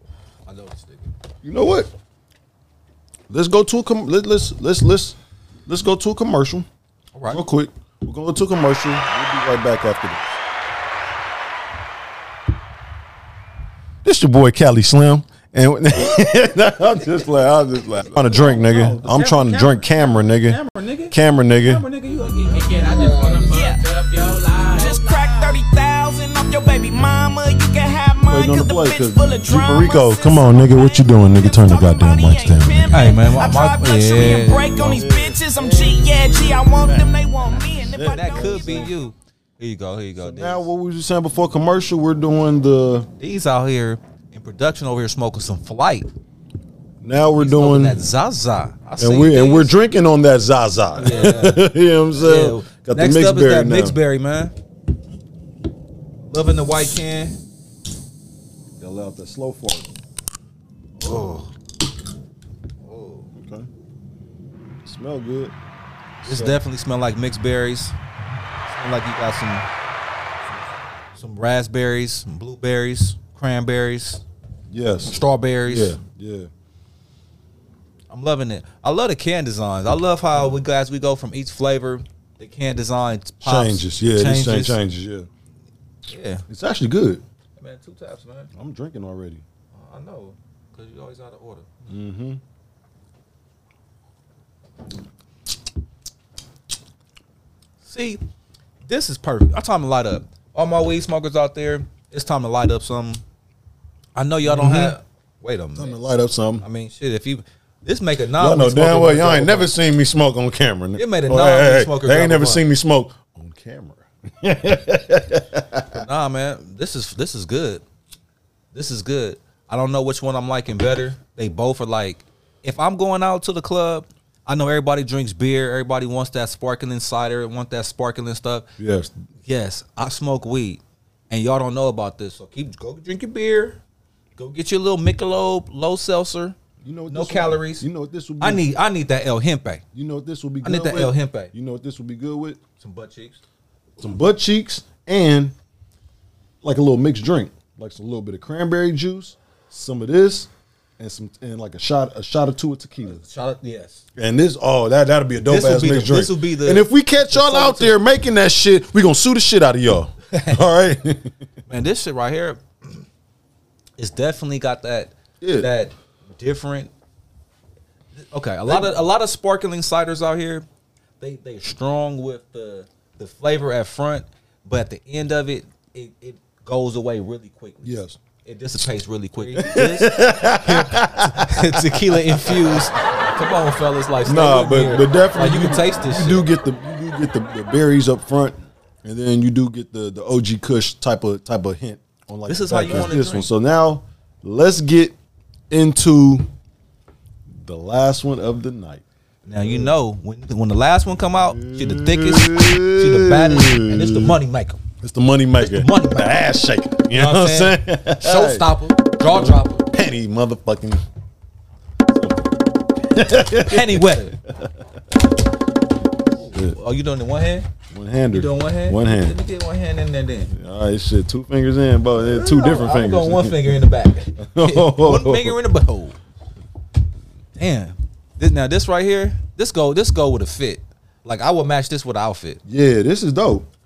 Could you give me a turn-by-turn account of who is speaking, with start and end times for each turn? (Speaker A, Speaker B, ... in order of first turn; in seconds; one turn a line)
Speaker A: 0.5-1.1
Speaker B: 1.4-1.9
Speaker B: 3.3-6.7
Speaker A: 7.1-7.4
Speaker B: 7.3-10.4
Speaker B: 14.0-21.9
Speaker A: 18.0-23.5
Speaker C: 22.5-25.2
Speaker D: 23.2-23.8
Speaker D: 24.7-38.7
Speaker B: 28.3-32.9
Speaker A: 32.9-35.0
Speaker B: 34.8-38.9
Speaker A: 38.0-40.7
Speaker B: 40.2-43.1
Speaker A: 43.2-46.1
Speaker B: 47.0-48.0
Speaker A: 47.4-49.8
Speaker B: 49.0-54.0
Speaker A: 51.0-54.5
Speaker A: 56.3-57.4
Speaker B: 58.8-59.9
Speaker A: 61.0-61.5
Speaker A: 62.8-63.2
Speaker B: 63.3-63.7
Speaker B: 64.8-65.5
Speaker B: 66.2-66.6
Speaker A: 66.2-67.9
Speaker A: 68.7-69.7
Speaker A: 71.1-74.2
Speaker B: 74.7-76.5
Speaker A: 75.0-76.0
Speaker A: 78.1-84.8
Speaker B: 83.4-85.3
Speaker A: 86.1-86.4
Speaker B: 86.5-87.2
Speaker A: 87.6-88.5
Speaker B: 88.5-89.4
Speaker A: 89.7-91.7
Speaker B: 91.9-92.4
Speaker A: 97.8-98.2
Speaker A: 98.8-103.2
Speaker A: 104.2-106.0
Speaker B: 104.4-105.0
Speaker B: 105.8-106.6
Speaker A: 106.6-109.7
Speaker B: 108.4-116.0
Speaker A: 111.0-112.7
Speaker A: 115.9-117.8
Speaker A: 118.7-128.7
Speaker B: 128.8-129.1
Speaker A: 129.4-133.8
Speaker A: 134.3-136.6
Speaker B: 136.8-138.7
Speaker A: 137.1-137.9
Speaker A: 138.4-139.8
Speaker B: 139.9-142.6
Speaker A: 140.6-141.5
Speaker A: 142.8-143.4
Speaker B: 144.0-145.5
Speaker B: 146.6-153.2
Speaker A: 153.0-154.0
Speaker B: 154.2-161.3
Speaker A: 155.4-158.0
Speaker A: 160.3-160.6
Speaker A: 161.7-163.0
Speaker A: 164.0-166.9
Speaker B: 165.4-165.7
Speaker A: 168.2-170.7
Speaker A: 171.2-177.9
Speaker B: 177.8-178.2
Speaker A: 178.4-186.5
Speaker B: 179.5-182.8
Speaker B: 184.2-195.1
Speaker A: 192.4-193.5
Speaker B: 195.7-196.5
Speaker B: 197.6-199.0
Speaker A: 199.4-204.8
Speaker B: 199.6-199.9
Speaker B: 201.5-204.3
Speaker B: 205.0-208.7
Speaker A: 205.6-206.4
Speaker A: 207.1-209.8
Speaker B: 209.2-211.0
Speaker B: 212.1-212.5
Speaker B: 213.0-214.7
Speaker A: 213.6-214.3
Speaker A: 216.4-217.7
Speaker B: 216.5-216.8
Speaker B: 217.9-219.4
Speaker A: 218.3-220.5
Speaker B: 220.5-225.6
Speaker A: 222.2-226.2
Speaker A: 227.6-232.6
Speaker B: 232.7-233.7